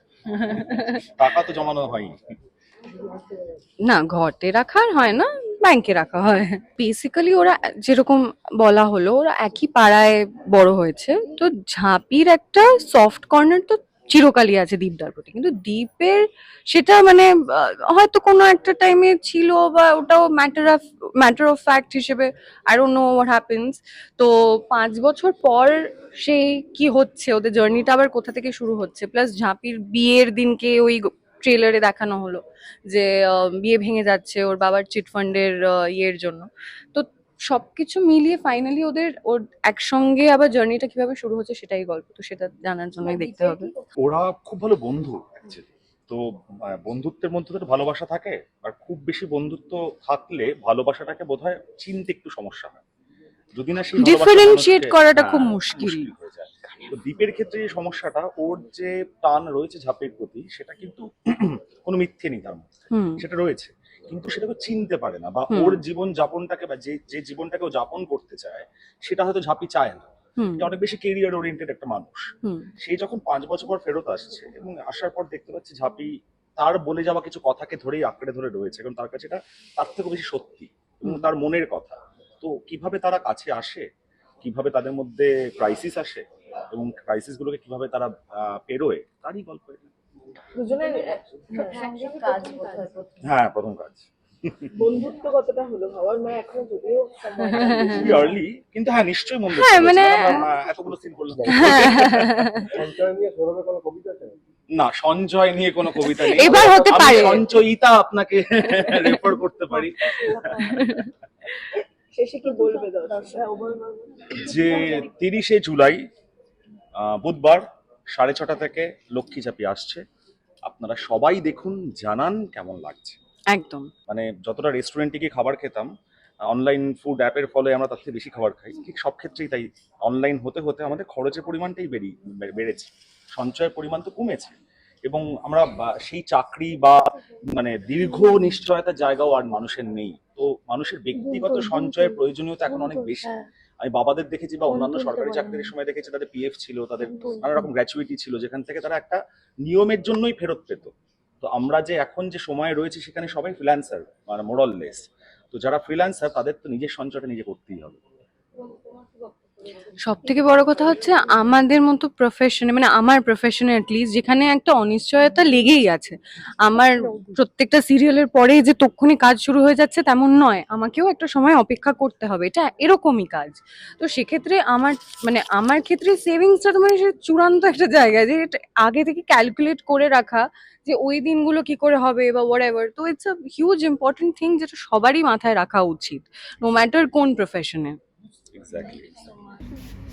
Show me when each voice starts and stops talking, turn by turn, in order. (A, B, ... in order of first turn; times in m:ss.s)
0:00.3-0:01.0 A
0:00.9-0:02.2 B
0:03.8-0:43.7 A
0:43.0-0:43.9 C
0:44.0-0:52.8 B
0:53.6-1:23.9 B
0:54.0-0:56.1 A
1:02.9-1:03.2 A
1:05.5-1:05.8 A
1:10.4-1:10.7 A
1:12.4-1:12.7 A
1:24.4-1:29.9 B
1:30.6-1:33.0 D
1:31.5-1:33.2 C
1:33.2-1:34.7 B
1:34.7-1:38.3 D
1:37.5-1:38.3 A
1:37.6-1:42.7 B
1:39.5-1:40.6 A
1:41.3-1:41.7 E
1:41.6-1:42.8 A
1:42.7-1:44.4 E
1:44.8-1:51.0 B
1:46.0-1:47.6 A
1:46.4-1:47.4 D
1:48.8-1:49.4 A
1:50.1-1:50.8 D
1:50.6-1:51.1 A
1:51.8-1:55.1 D
1:52.5-1:53.6 C
1:54.3-1:56.0 B
1:57.0-2:00.0 B
2:00.7-2:03.2 B
2:03.5-2:03.9 A
2:04.1-2:05.9 B
2:06.5-2:17.0 B
2:17.6-2:38.0 B
2:21.2-2:23.4 C
2:24.7-2:25.7 C
2:27.1-2:27.6 C
2:40.0-3:08.0 A
3:08.5-3:09.3 B